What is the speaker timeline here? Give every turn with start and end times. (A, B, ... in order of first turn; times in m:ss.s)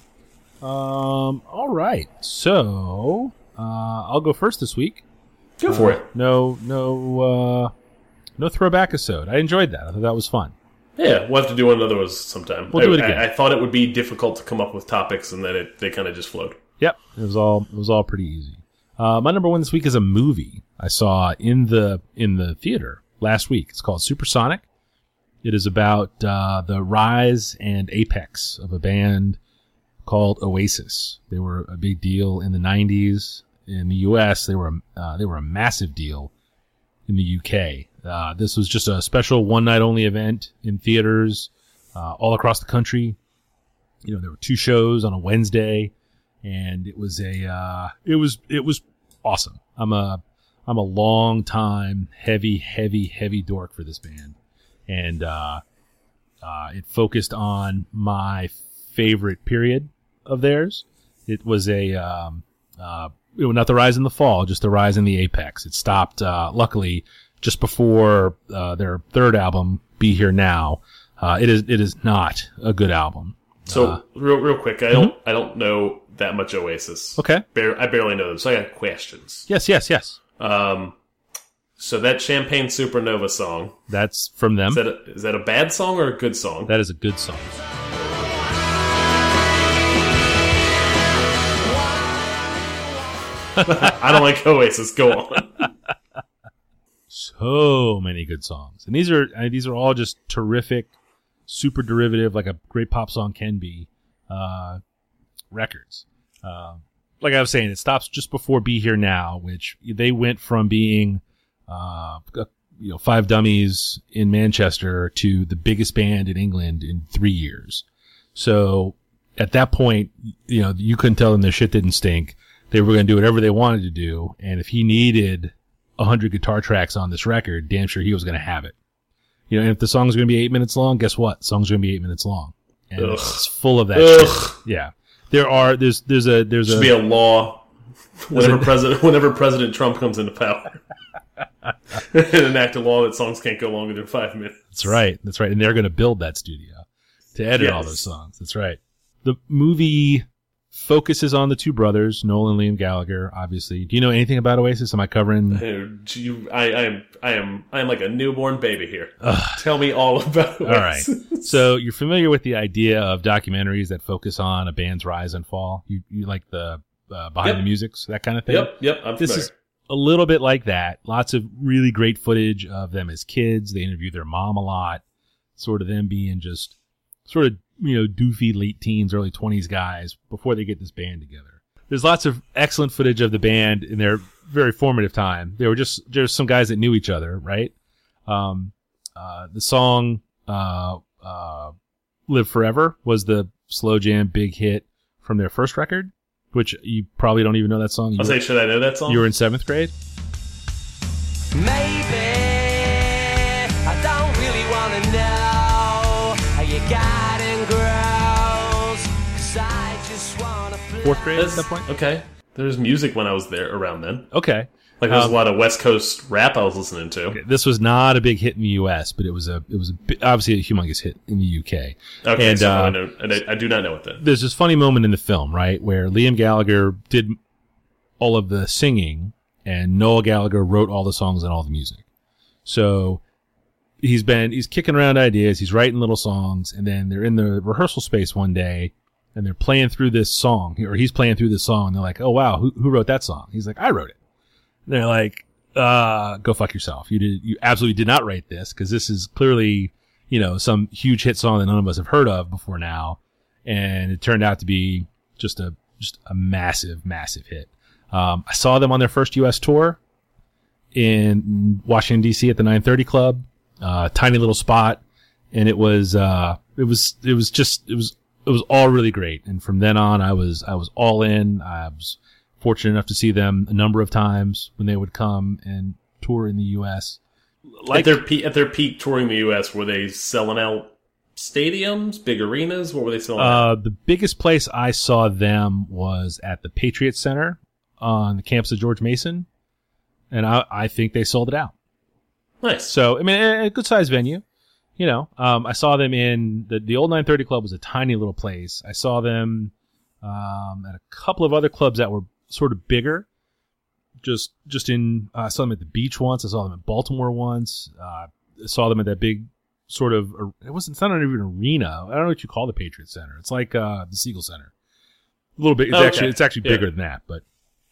0:00.6-0:05.0 A
0:05.6-0:06.1 B
0:05.7-0:07.7 A
0:08.4-0:10.5 A
0:11.0-0:16.6 B
0:12.7-0:13.2 A
0:16.8-0:24.6 A
0:25.4-0:29.4 A
0:30.0-0:36.3 A
0:37.1-0:43.2 A
0:44.0-0:54.4 A
0:54.9-0:55.6 A
0:56.4-1:14.0 A
1:13.7-1:19.5 B
1:17.2-1:17.4 A
1:19.5-1:20.2 A
1:20.4-1:21.0 B
1:21.8-1:23.8 B
1:23.9-1:24.8 A
1:24.7-1:26.7 B
1:26.7-1:27.5 A
1:28.2-1:29.3 C
1:31.6-1:33.0 C
1:33.6-1:33.9 A
1:33.6-1:35.7 B
1:37.1-1:40.9 A
1:41.5-1:44.8 A
1:45.5-1:57.8 A
1:58.3-2:08.7 A
2:09.5-2:16.9 A
2:13.0-2:14.6 B
2:16.6-2:17.6 B
2:18.2-2:20.8 B
2:18.3-2:18.7 A
2:21.9-2:24.9 B
2:24.7-2:35.6 A
2:27.5-2:28.0 B
2:35.5-2:41.6 B
2:39.2-2:39.6 A
2:40.6-2:55.0 A
2:48.5-2:49.5 B
2:55.6-2:56.7 A
2:57.3-3:07.7 A
3:08.2-3:11.7 A
3:12.3-3:18.4 A
3:18.2-3:19.2 B
3:19.1-3:19.9 A
3:21.5-3:31.4 C
3:31.0-3:31.9 A
3:31.4-3:34.3 B
3:34.3-3:35.4 A
3:35.0-3:37.4 B
3:37.3-3:43.0 A
3:42.2-3:44.2 B
3:44.2-3:47.4 A
3:48.2-3:52.0 A
3:52.6-3:53.2 A
3:54.0-4:04.2 A
4:04.9-4:20.0 A
4:20.9-4:37.2 A
4:37.8-4:38.2 A
4:37.9-4:43.7 B
4:43.4-4:49.5 A
4:50.3-4:51.7 A
4:52.6-4:52.9 B
4:52.9-4:54.4 A
4:55.0-5:03.3 A
5:04.2-5:14.7 A
5:15.6-5:17.4 A
5:15.9-5:16.9 B